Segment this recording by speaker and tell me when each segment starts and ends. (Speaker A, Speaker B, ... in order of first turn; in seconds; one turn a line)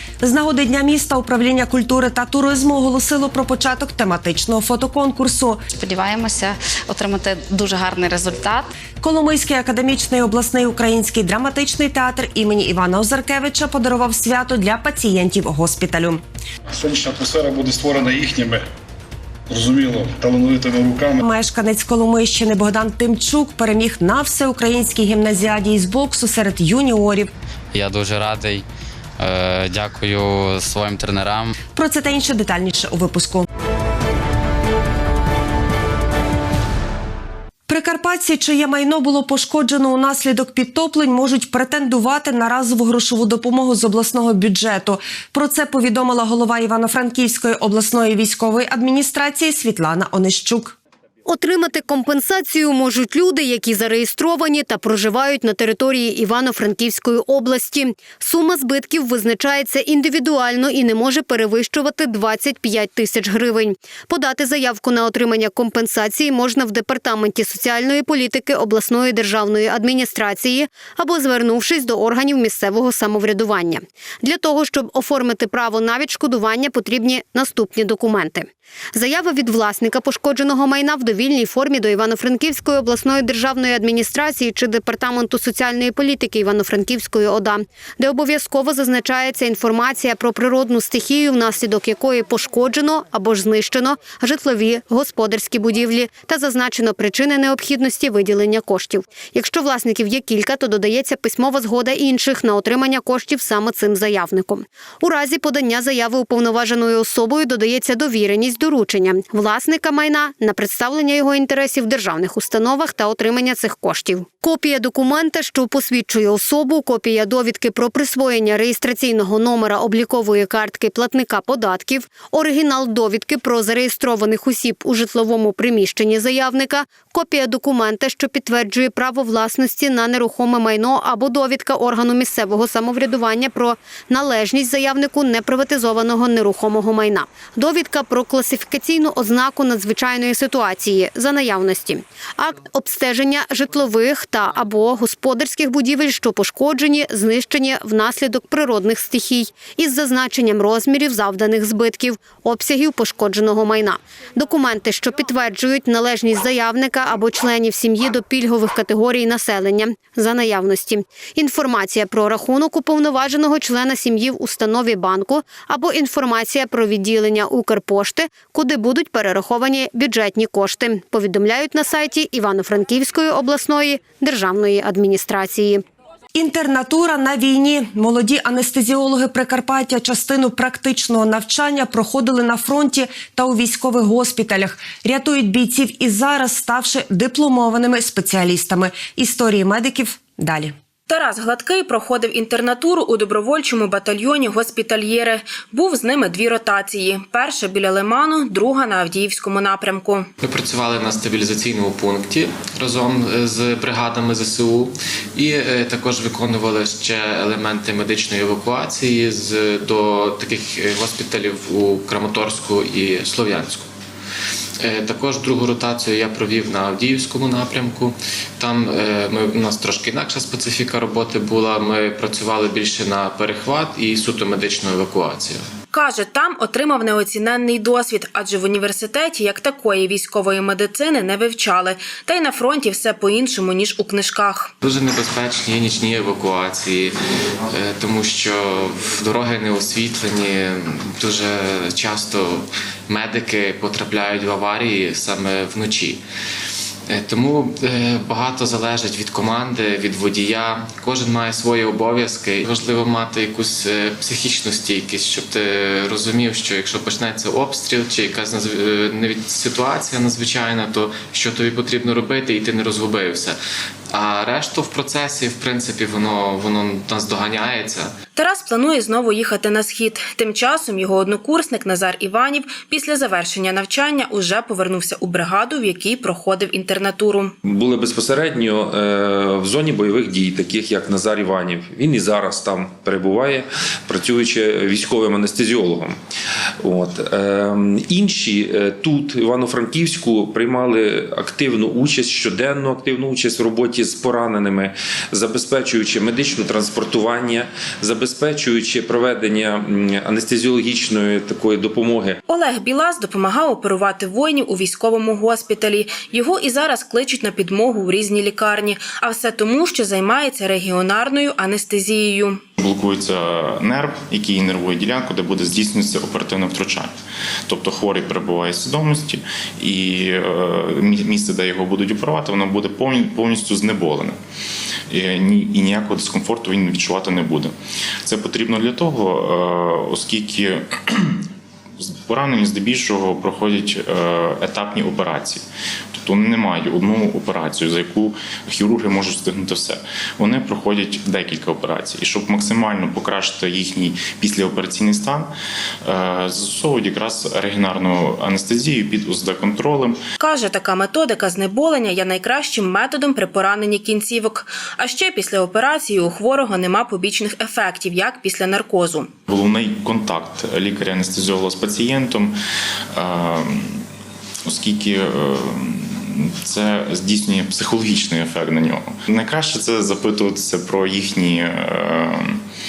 Speaker A: 0.2-5.6
Speaker B: 5.7-8.7
Speaker A: 9.0-16.2
Speaker C: 16.7-18.6
Speaker C: 19.5-21.2
Speaker A: 21.2-27.3
Speaker D: 27.7-28.6
Speaker D: 29.2-31.5
Speaker A: 31.7-33.5
Speaker A: 37.7-50.8
Speaker E: 51.2-175.8
Speaker A: 176.3-190.7
Speaker F: 191.1-200.3
Speaker G: 200.4-213.9
Speaker G: 214.8-225.6
Speaker F: 225.9-234.7
Speaker G: 234.8-237.2
Speaker G: 237.7-246.2
Speaker G: 247.1-263.6
Speaker G: 264.1-268.1
Speaker F: 268.3-277.5
Speaker H: 277.6-286.2
Speaker H: 286.8-302.4
Speaker F: 302.5-312.6
Speaker I: 312.8-317.1
Speaker I: 317.7-324.4
Speaker I: 325.1-327.7
Speaker I: 328.2-331.4
Speaker I: 332.0-335.6
Speaker I: 336.1-345.5
Speaker I: 346.0-350.2
Speaker F: 350.4-359.3
Speaker I: 359.5-362.6
Speaker I: 363.1-364.0
Speaker I: 364.6-372.6